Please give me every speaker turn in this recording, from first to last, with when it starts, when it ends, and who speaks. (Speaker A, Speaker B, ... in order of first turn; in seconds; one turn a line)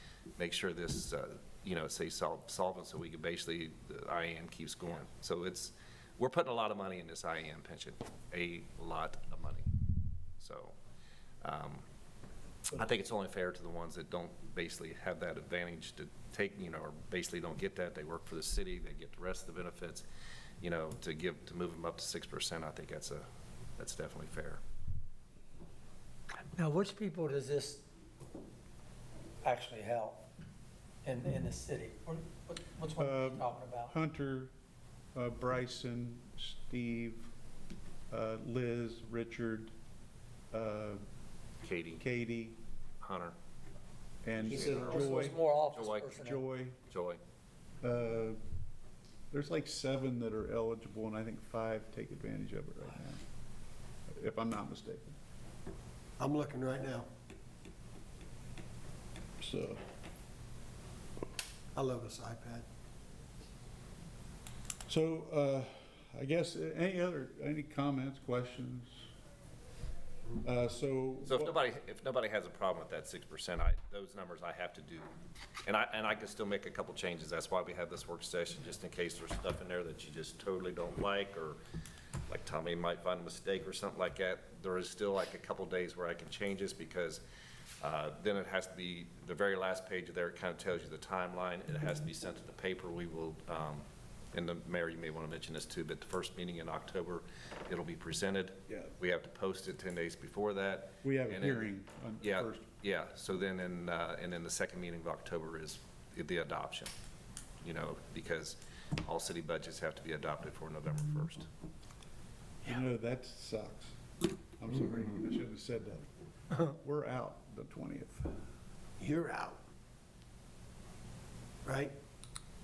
Speaker A: 0.4-9.7
Speaker A: 10.4-10.7
Speaker A: 11.4-11.8
Speaker A: 12.7-20.1
Speaker A: 20.6-23.3
Speaker A: 23.8-24.6
Speaker B: 26.5-27.8
Speaker B: 29.4-30.2
Speaker B: 31.0-34.0
Speaker C: 33.0-34.5
Speaker C: 35.1-37.3
Speaker C: 38.1-39.7
Speaker C: 40.5-41.0
Speaker A: 41.6-42.1
Speaker C: 42.0-42.6
Speaker A: 43.0-43.4
Speaker C: 44.2-45.5
Speaker A: 44.4-46.3
Speaker B: 44.5-46.4
Speaker C: 46.1-46.8
Speaker A: 46.9-47.2
Speaker C: 47.8-48.4
Speaker C: 49.3-53.2
Speaker C: 54.1-55.2
Speaker D: 56.2-57.1
Speaker C: 59.4-59.8
Speaker D: 61.7-62.6
Speaker C: 64.9-69.0
Speaker C: 70.4-71.5
Speaker A: 71.3-75.1
Speaker A: 75.7-81.6
Speaker A: 82.3-87.2
Speaker A: 87.8-106.9
Speaker C: 101.0-102.7
Speaker A: 107.6-111.5
Speaker C: 112.6-114.0
Speaker C: 114.6-118.3
Speaker D: 119.0-119.6
Speaker D: 121.6-121.9